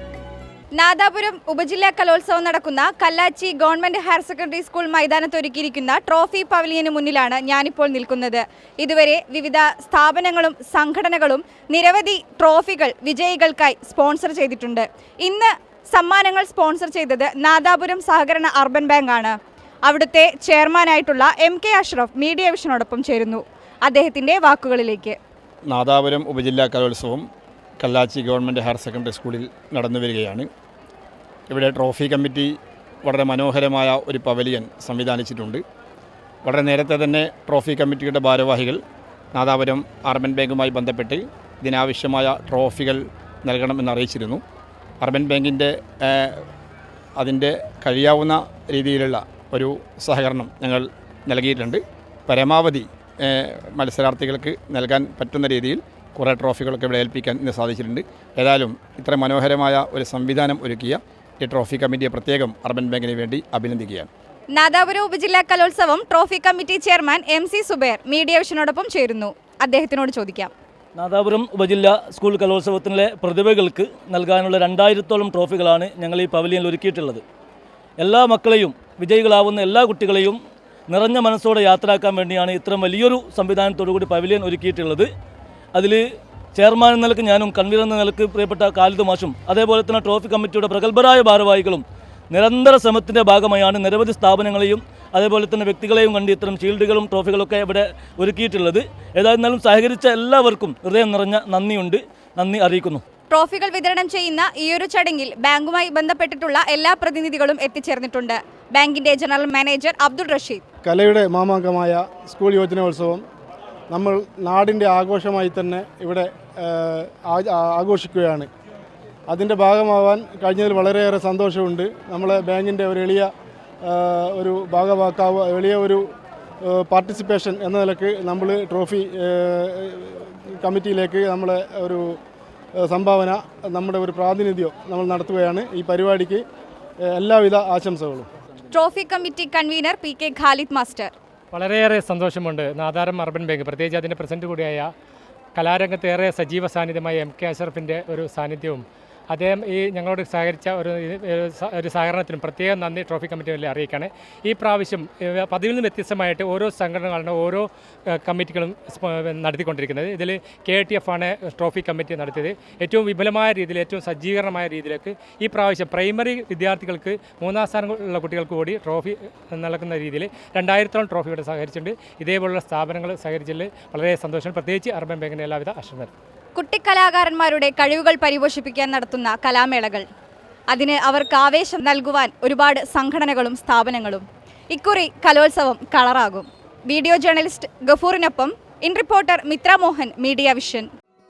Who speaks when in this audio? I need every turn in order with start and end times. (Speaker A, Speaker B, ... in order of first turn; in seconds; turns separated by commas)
Speaker A: 0.8-19.4, Speaker A: 19.9-25.2, Speaker B: 25.7-27.3, Speaker B: 27.8-30.5, Speaker B: 31.5-32.5, Speaker B: 33.0-35.6, Speaker B: 36.5-38.8, Speaker B: 39.4-44.4, Speaker B: 45.0-46.4, Speaker B: 47.2-64.1, Speaker A: 64.5-70.5, Speaker C: 71.0-77.2, Speaker C: 78.0-80.4, Speaker C: 80.9-85.1, Speaker C: 85.8-86.0, Speaker C: 86.5-103.0, Speaker A: 103.3-110.6, Speaker D: 110.8-113.2, Speaker D: 113.9-118.5, Speaker D: 119.3-126.1, Speaker D: 126.6-132.2, Speaker D: 132.8-136.4, Speaker D: 137.0-138.3, Speaker A: 138.7-141.1, Speaker E: 141.5-144.9, Speaker E: 145.6-176.1, Speaker A: 176.6-180.1, Speaker A: 180.7-190.9